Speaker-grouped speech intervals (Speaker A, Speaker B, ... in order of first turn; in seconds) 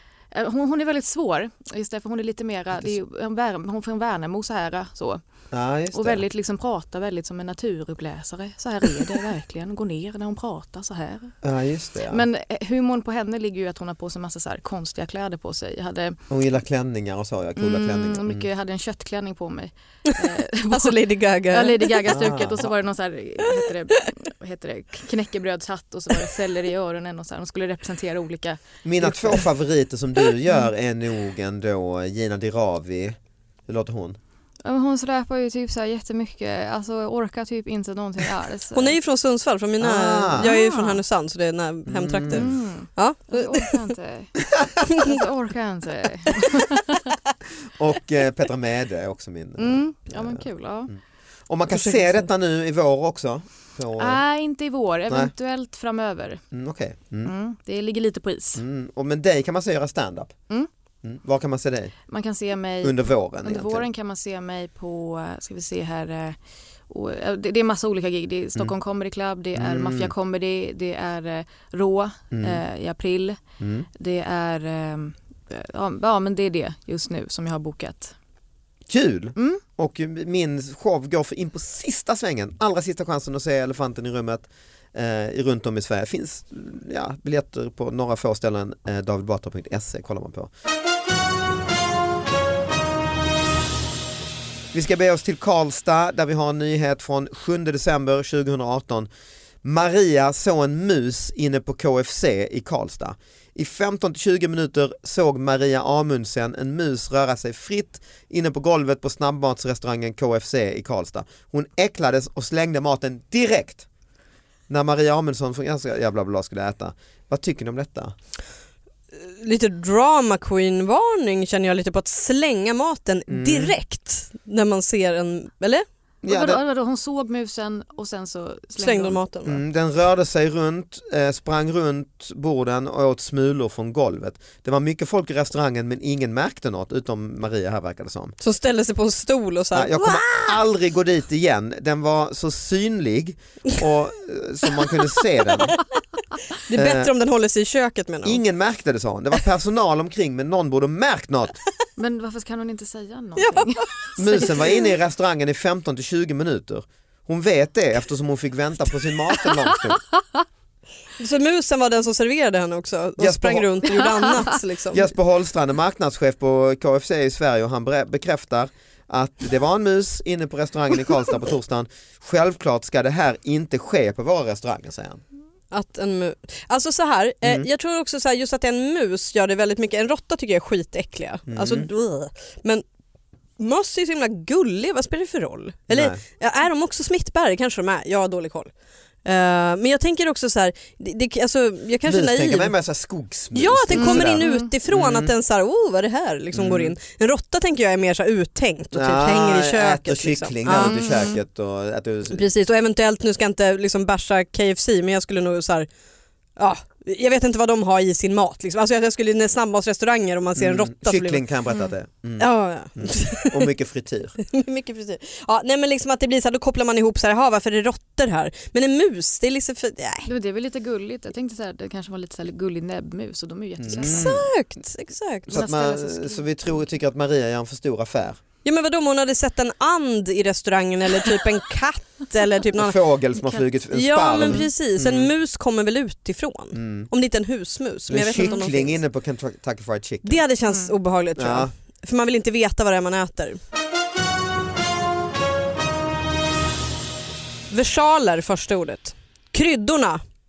Speaker A: 0.3-5.2, 5.9-11.3, 12.0-16.2, 17.6-21.0, 21.5-29.5, 34.6-39.0, 40.4-41.0, 42.3-47.1, 49.6-50.9, 51.7-52.3, 54.0-56.4, 57.2-58.6, 62.1-66.4, 66.9-73.4, 73.9-78.1, 79.3-79.6, 126.3-129.2, 152.0-154.5, 193.9-194.7, 200.7-201.4, 220.2-224.3, 225.5-226.4
Speaker B: 5.5-6.2, 11.4-12.2, 16.3-18.4, 22.1-22.7, 28.8-34.2, 39.8-40.5, 41.9-42.5, 47.8-50.4, 51.5-54.2, 56.5-57.3, 58.5-60.3, 61.0-61.9, 62.8-63.9, 69.5-70.1, 72.3-72.6, 73.6-73.9, 78.9-90.5, 94.7-99.1, 99.6-113.8, 114.7-118.1, 123.3-123.7, 126.2-126.6, 129.4-138.4, 139.7-145.8, 146.7-147.1, 148.2-151.6, 154.2-160.0, 163.2-163.8, 164.9-175.2, 177.4-177.7, 181.5-181.9, 185.9-186.2, 192.0-195.3, 196.5-196.9, 198.9-202.5, 210.6-214.4, 223.8-224.5, 225.5-228.4, 232.8-235.3, 236.7-237.1, 238.1-240.4, 241.3-241.7
Speaker C: 20.7-22.1, 38.7-43.7, 44.9-45.2, 119.1-125.8, 128.8-129.6, 138.4-140.6, 146.7-148.4, 153.4-154.7, 161.2-165.1, 175.7-182.8, 183.6-188.7, 189.2-192.7, 193.5-201.2, 202.3-205.9, 206.6-211.4, 212.4-213.7, 214.4-220.3, 224.0-225.6, 228.6-233.0, 233.9-239.0, 240.2-243.6, 247.7-250.2